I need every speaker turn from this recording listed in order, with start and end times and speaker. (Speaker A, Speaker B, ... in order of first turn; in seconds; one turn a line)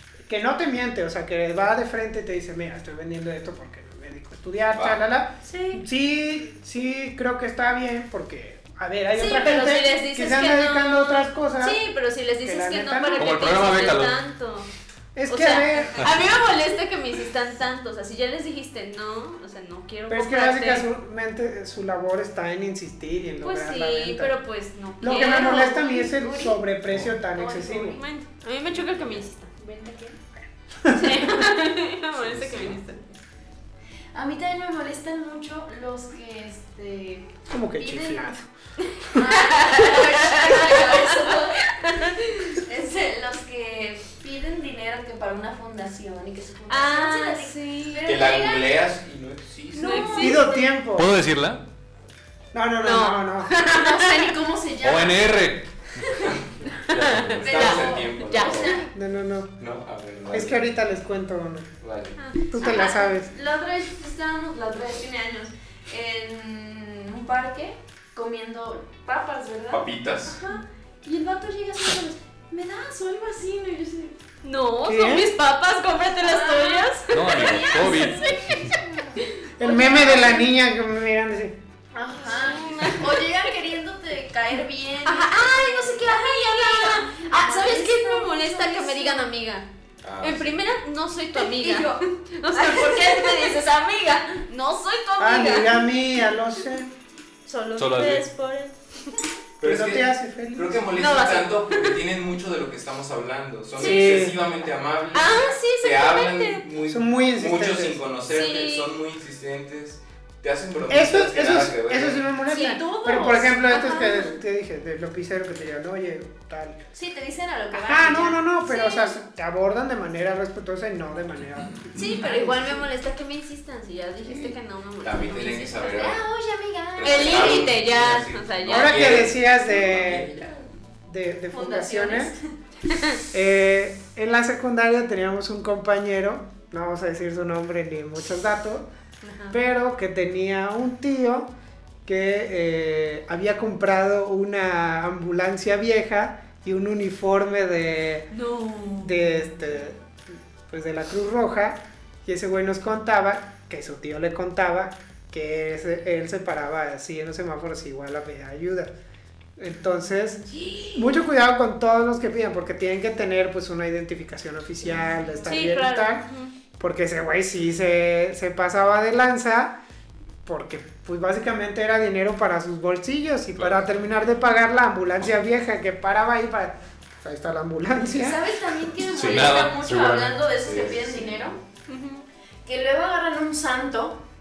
Speaker A: 0.3-11.8
Speaker B: 4.7-5.0
Speaker C: 5.4-5.8
Speaker C: 9.1-14.7
Speaker A: 12.4-13.6
Speaker D: 13.2-14.2
Speaker A: 15.1-16.3
Speaker C: 15.3-20.9
Speaker A: 20.1-24.3
Speaker C: 23.4-26.1
Speaker A: 25.0-28.0
Speaker E: 25.2-26.6
Speaker E: 27.4-28.0
Speaker C: 27.6-29.5
Speaker B: 28.6-29.2
Speaker E: 29.6-30.2
Speaker A: 30.8-31.4
Speaker C: 30.9-33.2
Speaker B: 32.1-32.8
Speaker E: 34.1-38.3
Speaker A: 37.5-38.5
Speaker E: 39.1-48.8
Speaker C: 39.2-41.2
Speaker C: 41.8-42.5
Speaker C: 46.7-48.0
Speaker B: 48.0-50.2
Speaker E: 49.7-50.6
Speaker C: 49.8-50.5
Speaker A: 50.2-51.1
Speaker D: 50.9-51.6
Speaker A: 52.5-53.5
Speaker C: 52.8-54.3
Speaker E: 53.6-55.4
Speaker D: 54.8-56.2
Speaker D: 56.9-57.5
Speaker C: 56.9-58.8
Speaker E: 57.4-58.9
Speaker B: 57.4-58.8
Speaker A: 58.9-59.6
Speaker B: 59.6-60.6
Speaker A: 60.3-61.7
Speaker B: 61.8-62.1
Speaker C: 62.2-62.9
Speaker A: 62.5-63.3
Speaker E: 62.6-74.1
Speaker B: 69.7-70.3
Speaker C: 74.4-78.4
Speaker A: 74.8-75.3
Speaker E: 76.2-80.5
Speaker D: 77.1-78.7
Speaker A: 79.6-81.6
Speaker E: 81.9-89.2
Speaker C: 82.2-83.3
Speaker C: 85.0-89.7
Speaker B: 90.0-90.5
Speaker C: 90.2-95.8
Speaker E: 91.4-93.6
Speaker A: 95.2-96.9
Speaker C: 97.5-98.8
Speaker D: 97.8-98.2
Speaker B: 99.6-112.3
Speaker A: 99.6-100.9
Speaker C: 100.9-102.0
Speaker C: 103.8-104.2
Speaker A: 103.8-104.4
Speaker C: 105.1-106.6
Speaker A: 106.9-108.0
Speaker C: 108.3-109.0
Speaker A: 110.9-116.8
Speaker E: 112.5-114.0
Speaker C: 112.5-114.3
Speaker E: 116.9-118.5
Speaker A: 117.7-122.8
Speaker C: 118.7-119.1
Speaker B: 121.7-122.2
Speaker C: 121.9-126.0
Speaker A: 124.2-124.5
Speaker B: 125.0-126.2
Speaker E: 125.7-127.7
Speaker B: 126.9-130.8
Speaker C: 127.0-129.2
Speaker A: 128.7-130.3
Speaker A: 131.1-132.3
Speaker C: 131.6-132.3
Speaker E: 131.7-132.2
Speaker C: 132.9-133.2
Speaker A: 133.3-138.9
Speaker C: 139.2-139.6
Speaker A: 139.5-141.5
Speaker A: 142.0-148.3
Speaker C: 148.3-149.3
Speaker A: 148.9-150.0
Speaker A: 150.7-158.9
Speaker A: 159.6-166.3
Speaker C: 160.5-160.9
Speaker C: 165.4-166.5
Speaker A: 166.8-169.8
Speaker A: 170.4-178.4
Speaker E: 178.1-181.6
Speaker D: 179.1-180.4
Speaker B: 180.6-181.4
Speaker C: 181.9-182.2
Speaker E: 182.6-184.2